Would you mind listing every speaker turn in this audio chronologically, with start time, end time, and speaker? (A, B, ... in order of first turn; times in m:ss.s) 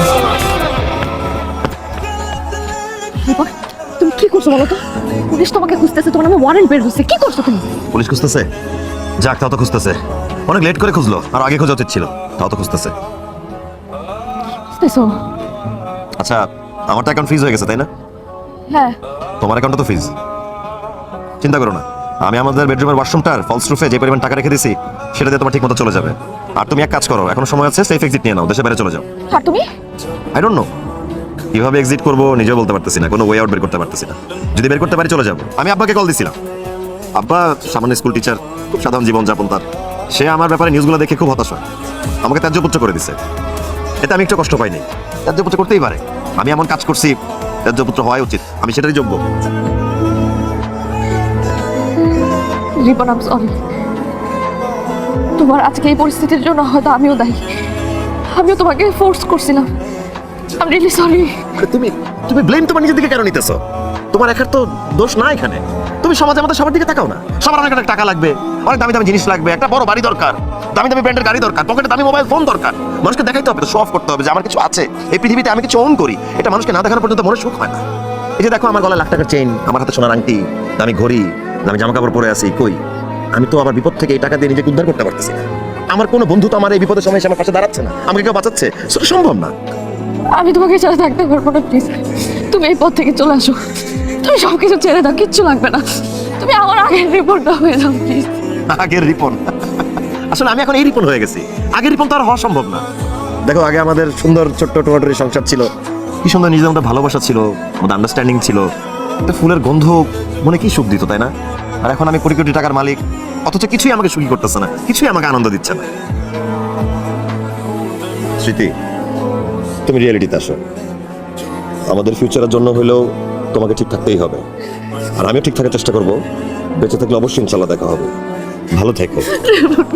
0:03.2-0:07.7 A
0:07.9-0:08.5 B
0:09.2-0:12.9 B
0:14.7-0:15.2 A
0:16.2-0:17.9 B
0:18.7-0:19.0 A
0:19.4-0:20.1 B
0:21.4-0:29.1 B
0:29.3-0:29.6 A
0:30.4-0:30.7 B
0:31.5-0:36.4 B
0:37.2-0:41.6 B
0:42.2-0:43.2 B
0:44.0-0:49.2 B
0:52.8-0:53.5 A
0:55.4-0:57.4 A
0:58.3-0:59.7 A
1:00.6-1:01.3 A
1:01.6-1:03.6 B
1:04.1-1:17.8 B
1:18.4-1:22.8 B
1:23.3-1:29.5 B
1:30.4-1:32.0 A
1:32.5-1:33.6 A
1:34.2-1:35.8 A
1:36.4-1:38.3 A
1:38.7-1:42.8 B
1:43.4-1:45.7 B
1:46.2-1:48.7 B
1:49.2-1:51.3 B
1:51.8-1:55.9 B
1:58.4-1:58.7 B
1:59.9-2:00.6 B
2:01.9-2:03.0 B
2:03.5-2:04.4 B
2:05.2-2:06.2 B
2:06.8-2:08.1 B
2:08.7-2:09.4 B
2:09.5-2:09.8 A